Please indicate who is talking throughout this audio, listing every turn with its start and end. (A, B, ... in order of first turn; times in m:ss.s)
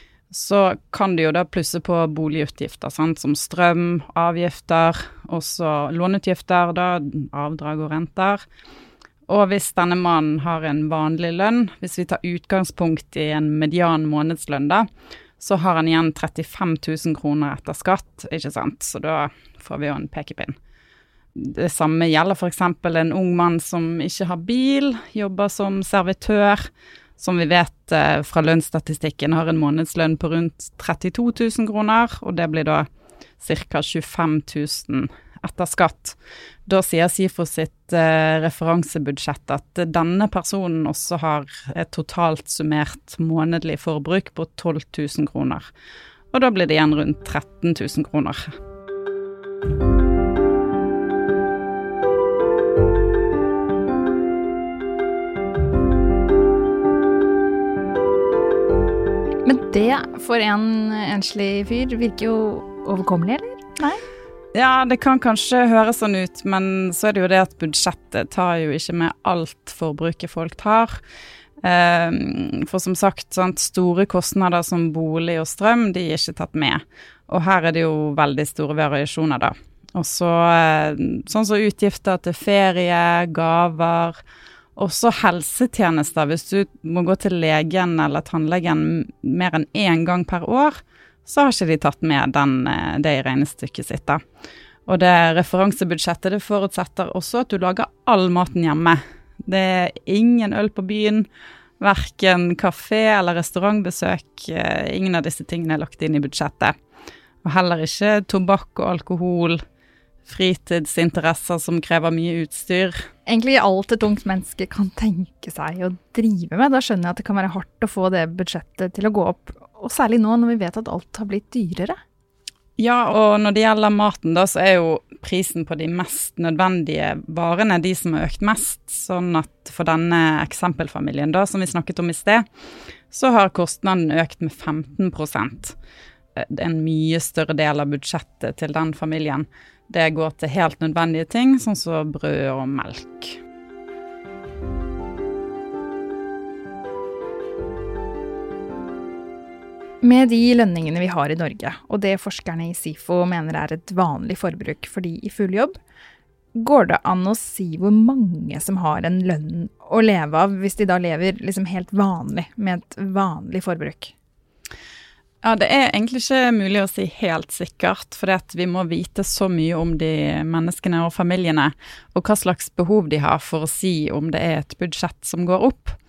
0:00.3-0:08.4 A
0:09.3-0:14.8 A
0:15.4-0:20.5 A
0:21.4-0:26.6 A
0:27.2-0:32.8 A
0:33.4-0:45.6 A
0:46.3-0:48.5 A
0:59.4-1:04.0 B
1:04.5-1:10.9 A
1:11.6-1:24.2 A
1:24.8-1:34.2 A
1:34.9-1:41.3 A
1:41.8-1:46.7 A
1:47.4-1:49.6 A
1:50.3-1:53.0 A
1:53.2-2:02.0 B
2:02.8-2:12.4 A
2:13.1-2:15.8 A
2:16.4-2:23.4 A
2:30.0-2:35.8 B
2:36.5-2:44.1 B
2:45.4-2:56.0 A